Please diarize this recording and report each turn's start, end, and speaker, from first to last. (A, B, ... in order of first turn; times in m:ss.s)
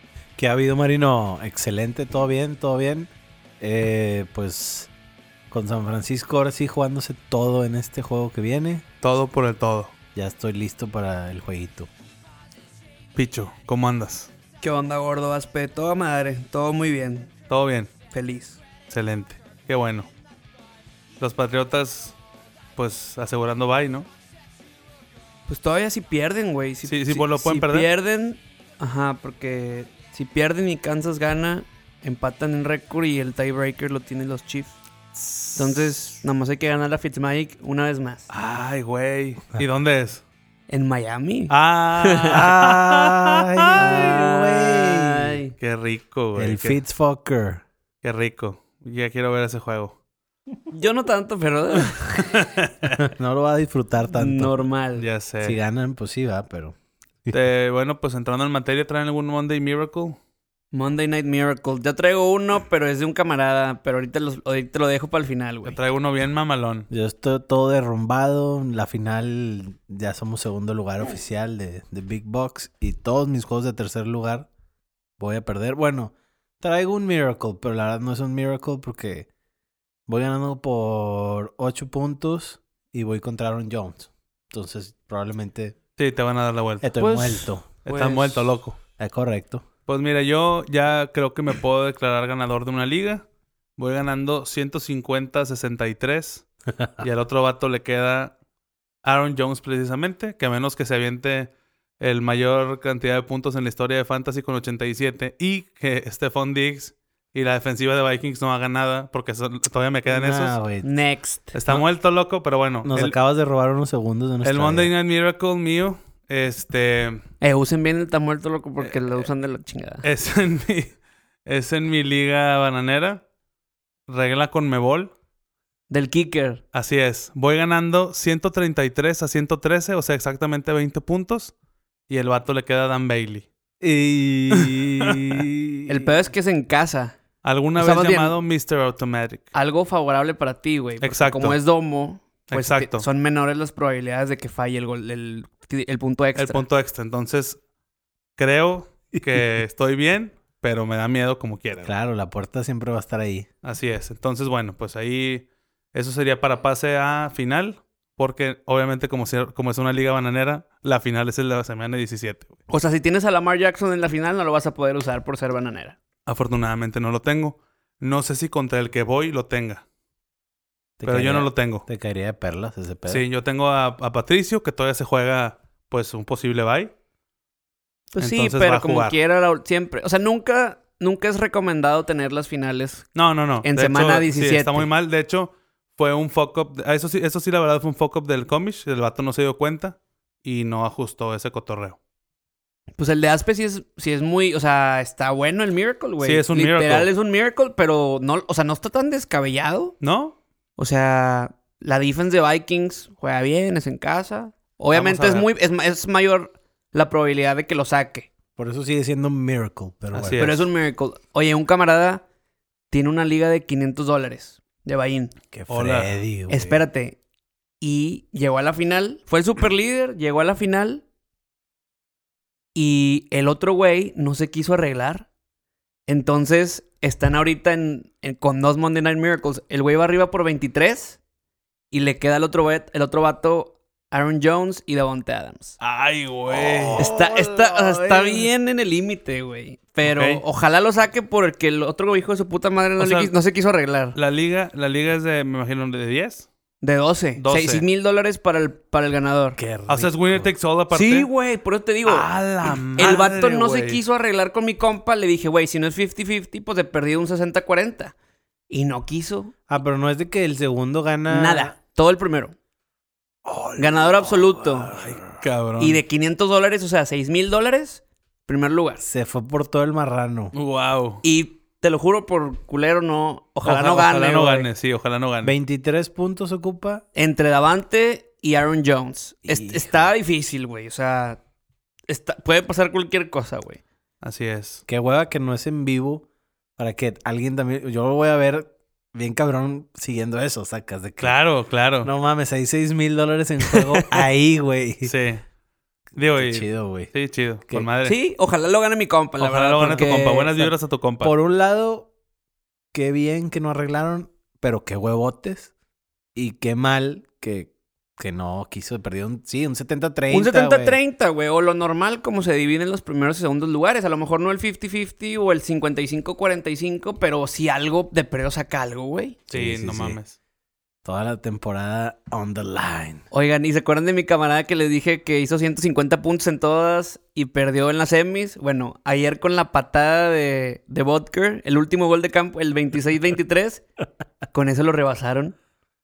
0:00.4-0:03.1 A
0:03.6-0:04.9 A
0:05.5-0:08.8 A
0:09.0-0:09.9 B
0:10.2-0:11.9 A
0:13.2-0:14.3 B
0:14.6-0:17.3 C
0:17.5-0:17.9 B
0:18.1-0:18.6 C
0:18.9-0:20.1 B
0:21.2-0:22.2 B
0:22.8-0:24.1 B
0:25.5-0:34.8 C
0:26.8-0:27.9 B
0:35.3-0:35.6 B
0:35.6-0:38.3 C
0:38.3-0:40.2 B
0:40.7-0:42.4 C
0:41.5-0:44.2 B
0:42.3-0:45.4 A
0:43.8-0:45.6 C
0:45.6-0:46.8 B
0:46.4-0:47.6 A
0:48.0-0:50.0 B
0:50.7-0:52.4 C
0:52.2-0:53.0 B
0:52.9-0:54.6 A
0:54.1-0:55.1 C
0:55.0-0:55.6 B
0:55.4-0:57.4 A
0:57.3-1:00.2 B
1:00.7-1:05.8 C
1:05.7-1:06.9 B
1:06.9-1:14.5 A
1:15.2-1:19.3 A
1:20.1-1:25.8 A
1:26.0-1:28.8 B
1:26.8-1:27.7 A
1:27.8-1:28.5 C
1:29.0-1:29.6 A
1:29.9-1:33.2 B
1:33.8-1:36.5 B
1:37.0-1:38.4 B
1:39.0-1:50.6 B
1:50.1-1:50.9 A
1:50.8-1:51.6 C
1:51.5-1:53.2 B
1:52.8-1:54.9 A
1:54.4-1:57.2 B
1:57.4-2:00.0 C
1:58.8-1:59.3 B
2:00.0-2:03.2 B
2:04.1-2:05.1 B
2:05.9-2:06.6 C
2:06.7-2:11.5 B
2:12.1-2:13.5 B
2:13.8-2:16.1 A
2:14.5-2:15.4 B
2:15.9-2:17.2 C
2:17.4-2:19.5 B
2:17.8-2:18.4 C
2:19.5-2:26.6 C
2:21.0-2:21.6 B
2:22.5-2:23.1 B
2:26.4-2:27.6 B
2:28.4-2:31.9 B
2:31.8-2:33.5 A
2:33.6-2:42.6 B
2:42.7-2:46.0 C
2:46.3-2:49.8 B
2:51.0-2:53.2 A
2:51.0-2:51.9 B
2:53.1-2:56.9 B
2:58.1-3:03.1 C
2:58.2-2:59.2 B
3:03.2-3:12.0 B
3:03.6-3:04.9 C
3:13.0-3:20.0 C
3:16.2-3:17.1 B
3:20.0-3:20.4 B
3:20.8-3:28.3 C
3:24.9-3:25.5 B
3:28.6-3:30.7 A
3:30.1-3:30.5 B
3:30.4-3:32.2 C
3:32.9-3:35.3 C
3:35.5-3:36.8 A
3:35.7-3:36.1 B
3:36.5-3:37.2 C
3:37.8-3:41.0 C
3:42.7-3:45.3 C
3:46.1-3:51.2 C
3:51.9-3:55.8 C
3:55.8-3:57.1 B
3:56.5-3:58.5 A
3:57.0-4:04.2 C
4:00.0-4:00.4 B
4:03.0-4:03.3 B
4:04.2-4:06.5 B
4:06.8-4:09.6 C
4:07.4-4:07.8 B
4:09.6-4:10.5 A
4:09.9-4:11.3 B
4:10.9-4:12.3 C
4:12.0-4:14.0 B
4:12.6-4:13.1 A
4:13.0-4:18.1 C
4:18.7-4:19.6 C
4:19.7-4:21.8 A
4:21.3-4:22.6 C
4:23.5-4:25.3 A
4:23.8-4:24.9 C
4:25.0-4:26.0 B
4:25.8-4:29.0 C
4:29.0-4:30.5 A
4:30.5-4:31.2 B
4:31.2-4:34.7 C
4:33.6-4:35.5 B
4:35.4-4:37.0 A
4:37.2-4:41.4 C
4:39.4-4:40.1 A
4:42.1-4:43.8 C
4:44.2-4:44.8 B
4:44.9-4:46.2 A
4:46.8-4:51.4 A
4:51.2-4:52.1 B
4:52.0-4:55.1 A
4:55.0-4:55.4 B
4:56.2-4:58.2 B
4:56.4-4:57.1 A
4:58.0-5:00.7 C
4:59.4-5:01.3 B
5:01.2-5:02.1 A
5:02.9-5:05.7 A
5:06.4-5:11.0 A
5:10.3-5:19.4 C
5:19.5-5:20.4 B
5:19.5-5:20.2 A
5:21.0-5:23.2 A
5:23.3-5:33.8 C
5:34.5-5:35.6 C